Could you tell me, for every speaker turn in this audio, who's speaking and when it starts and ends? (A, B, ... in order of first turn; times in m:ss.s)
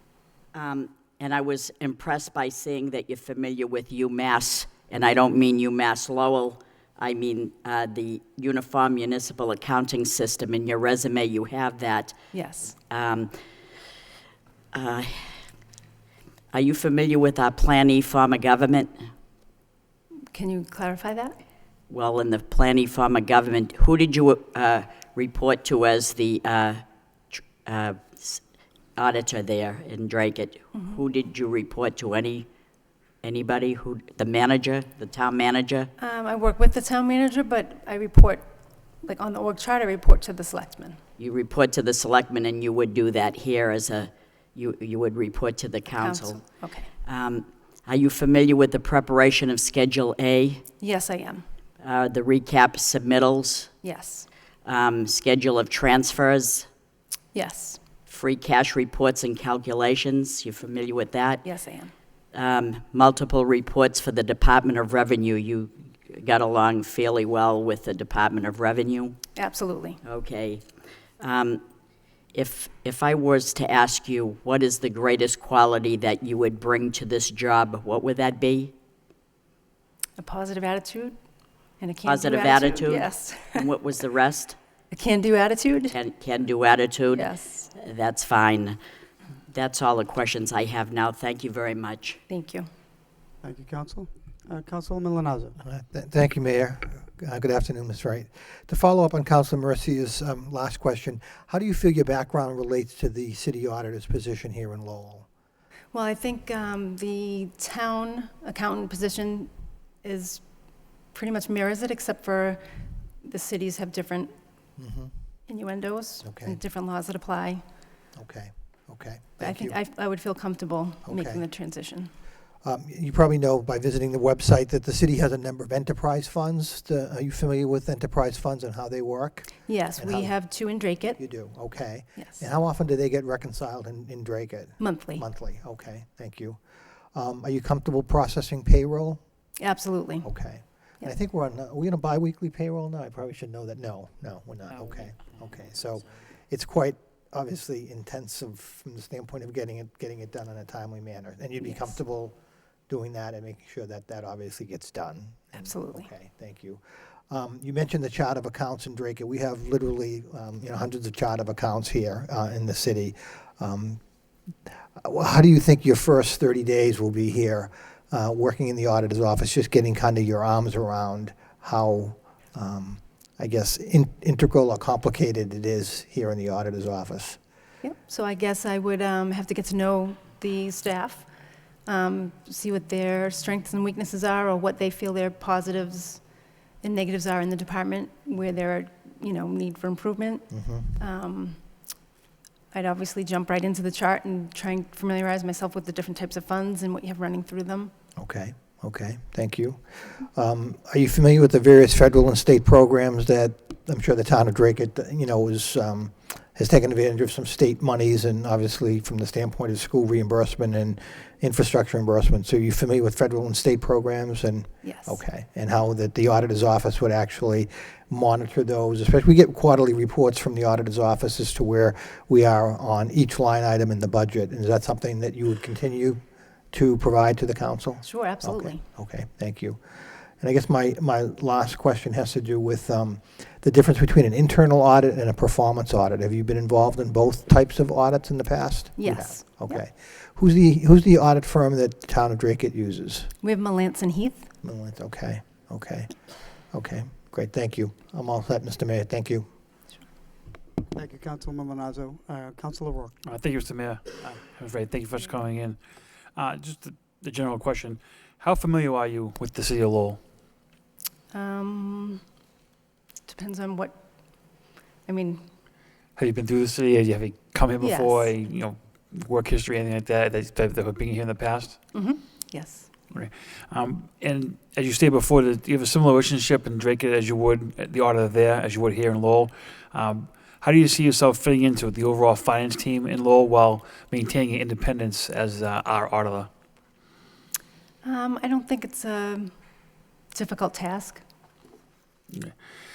0:00.5-0:12.1 A
0:12.3-0:12.7 B
0:12.9-0:13.3 A
0:14.7-0:15.3 A
0:16.5-0:18.9 A
0:20.3-0:21.4 B
0:21.9-0:26.8 A
0:27.3-0:28.4 A
0:29.0-0:32.4 A
0:30.7-0:31.0 B
0:33.2-0:35.9 A
0:36.0-0:38.4 B
0:39.0-0:41.0 B
0:41.2-0:46.4 A
0:45.9-0:46.9 B
0:47.0-0:50.6 A
0:50.8-0:51.4 B
0:51.8-0:53.7 A
0:53.8-0:54.3 B
0:54.6-0:56.7 A
0:57.3-0:57.8 B
0:58.1-1:01.4 A
1:01.4-1:01.9 B
1:02.3-1:09.2 A
1:09.4-1:10.0 B
1:10.0-1:10.6 A
1:11.2-1:11.6 A
1:12.3-1:18.7 A
1:20.2-1:21.1 B
1:21.8-1:23.7 B
1:22.0-1:24.6 A
1:24.9-1:26.0 B
1:25.9-1:28.8 A
1:27.1-1:27.7 B
1:29.5-1:32.2 A
1:32.3-1:32.7 B
1:33.4-1:35.6 C
1:35.6-1:45.3 D
1:45.9-1:49.5 B
1:50.0-1:50.4 B
1:51.1-1:52.6 B
1:53.2-1:54.3 B
1:54.8-1:55.1 D
1:55.5-1:57.6 B
1:56.2-1:56.6 D
1:58.2-1:59.8 D
1:59.4-2:02.1 B
2:01.1-2:01.4 D
2:02.6-2:10.3 D
2:09.6-2:11.2 B
2:11.2-2:16.6 D
2:14.8-2:15.2 B
2:17.1-2:19.2 D
2:19.6-2:20.3 B
2:20.2-2:32.4 D
2:31.6-2:31.9 B
2:32.9-2:44.0 D
2:35.6-2:36.1 B
2:45.0-2:57.4 D
2:57.8-3:01.3 B
3:01.8-3:06.2 B
3:06.8-3:11.6 B
3:10.5-3:11.0 D
3:12.7-3:17.9 B
3:18.2-3:46.2 D
3:34.8-3:35.2 B
3:46.7-3:49.8 D
3:48.0-3:48.8 B
3:50.4-4:03.3 D
3:59.0-3:59.8 B
4:03.4-4:04.5 B
4:04.6-4:06.1 D
4:06.7-4:09.4 D
4:10.9-4:13.2 C
4:13.2-4:15.8 E
4:16.4-4:20.2 E
4:21.3-4:22.2 B
4:23.3-4:24.0 B
4:25.0-4:25.4 B
4:26.2-4:31.8 E
4:27.8-4:28.3 B
4:31.9-4:32.9 B
4:33.1-4:46.5 E
4:48.0-4:49.5 B
4:50.3-4:51.2 B